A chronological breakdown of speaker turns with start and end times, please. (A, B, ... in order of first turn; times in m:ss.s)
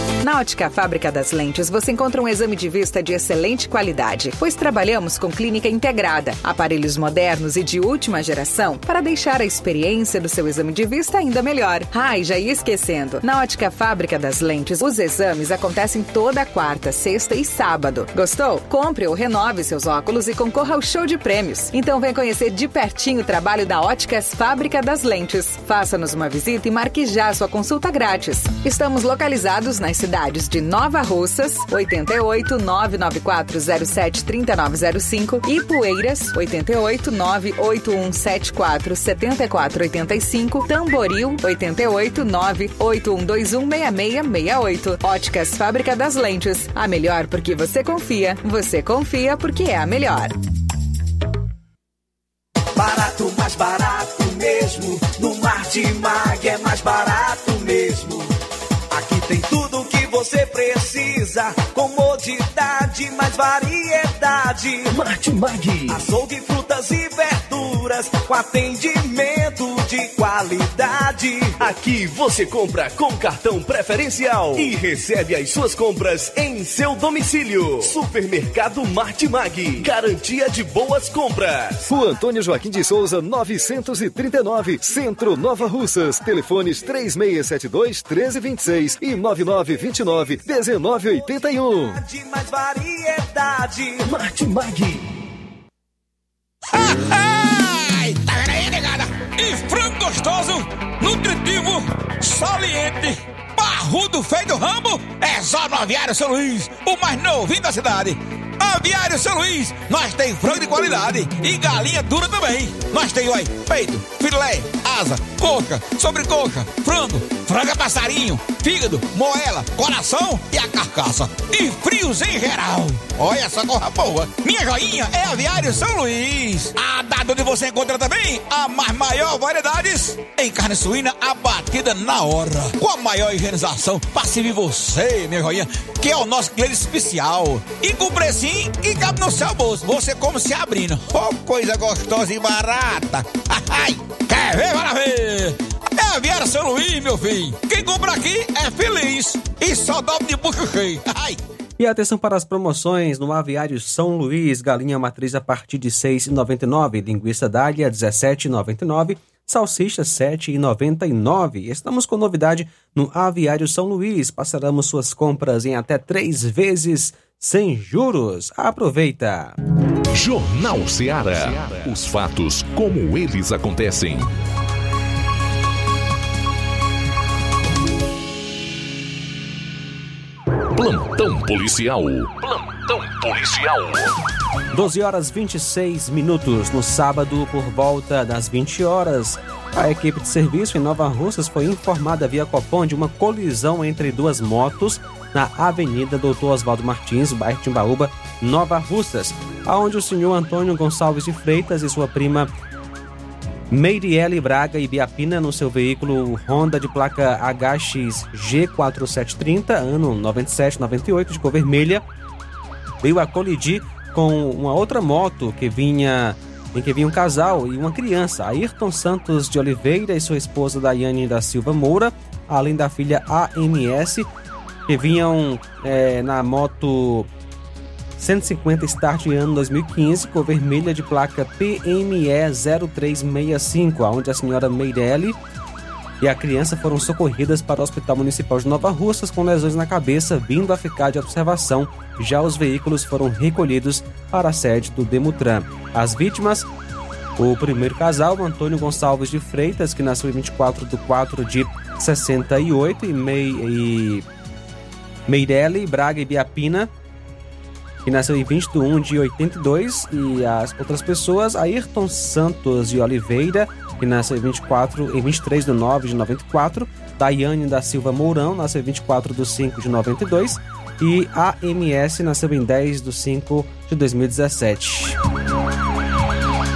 0:00.2-0:50.4 A
0:52.8-0:58.3 B
0:58.9-1:04.9 B
1:04.9-1:06.1 C
1:05.9-1:11.7 B
1:11.6-1:21.8 C
1:21.9-1:32.0 D
1:31.9-1:34.1 B
1:34.1-1:35.0 C
1:36.7-2:31.4 E
2:31.8-2:49.6 F
2:50.1-2:54.3 G
3:00.7-3:04.1 G
3:04.7-3:22.5 F
3:23.7-3:32.0 F
3:33.0-3:44.3 F
3:44.9-3:47.3 F
3:48.2-3:55.4 F
3:56.2-4:06.7 F
4:07.4-4:14.3 F
4:15.3-4:16.9 F
4:18.0-4:35.2 F